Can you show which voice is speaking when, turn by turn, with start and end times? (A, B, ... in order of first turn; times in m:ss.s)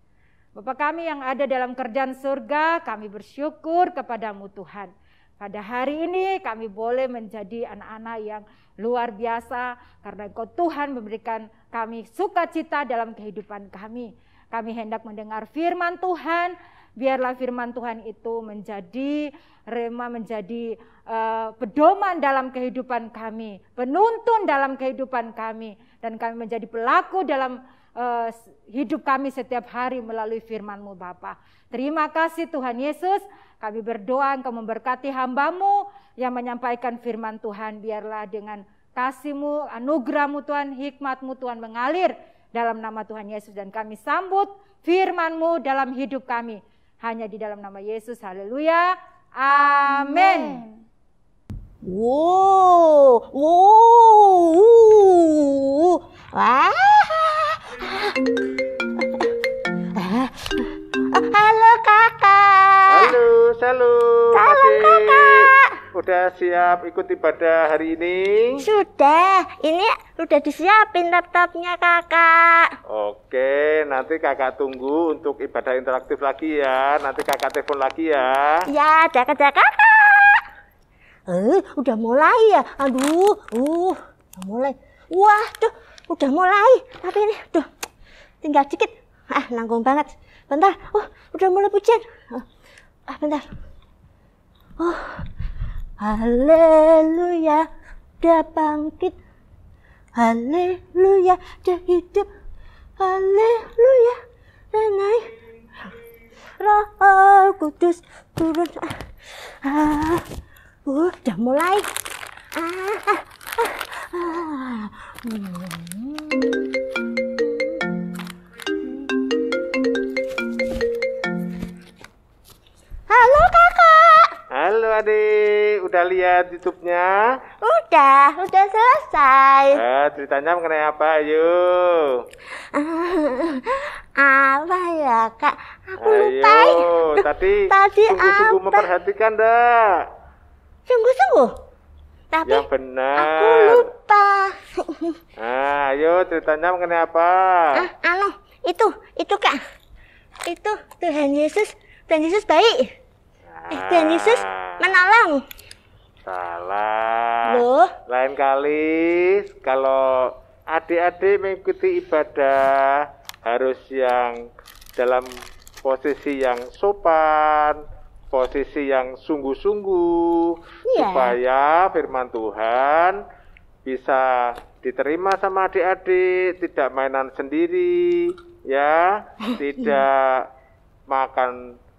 0:00.5-0:50.7 A
0:51.8-0:58.3 B
0:59.0-0:59.4 B
0:59.9-1:03.2 B
1:02.9-1:08.6 C
1:04.3-1:05.8 B
1:08.6-1:12.7 B
1:12.9-1:18.6 C
1:18.7-1:20.4 B
1:21.3-1:27.7 B
1:28.4-1:32.4 B
1:33.1-1:33.4 B
1:34.8-1:35.3 B
1:36.0-1:37.6 B
1:38.2-1:39.2 B
1:40.2-1:42.3 B
1:43.0-1:44.2 B
1:44.7-1:45.3 B
1:46.6-1:50.2 B
1:50.8-1:51.9 B
1:52.5-1:57.8 B
2:03.1-2:04.4 B
2:04.5-2:07.3 C
2:07.6-2:09.8 B
2:09.7-2:12.2 C
2:12.7-2:18.9 B
2:16.0-2:20.1 C
2:20.9-2:21.5 B
2:22.3-2:25.2 B
2:22.5-2:23.8 C
2:25.4-2:27.9 C
2:27.7-2:29.6 B
2:30.4-2:32.9 B
2:33.6-2:34.8 C
2:33.7-2:35.4 B
2:36.2-2:45.3 C
2:37.4-2:38.0 B
2:45.8-2:53.2 C
2:50.8-2:51.4 B
2:53.8-3:00.5 C
3:01.1-3:01.6 C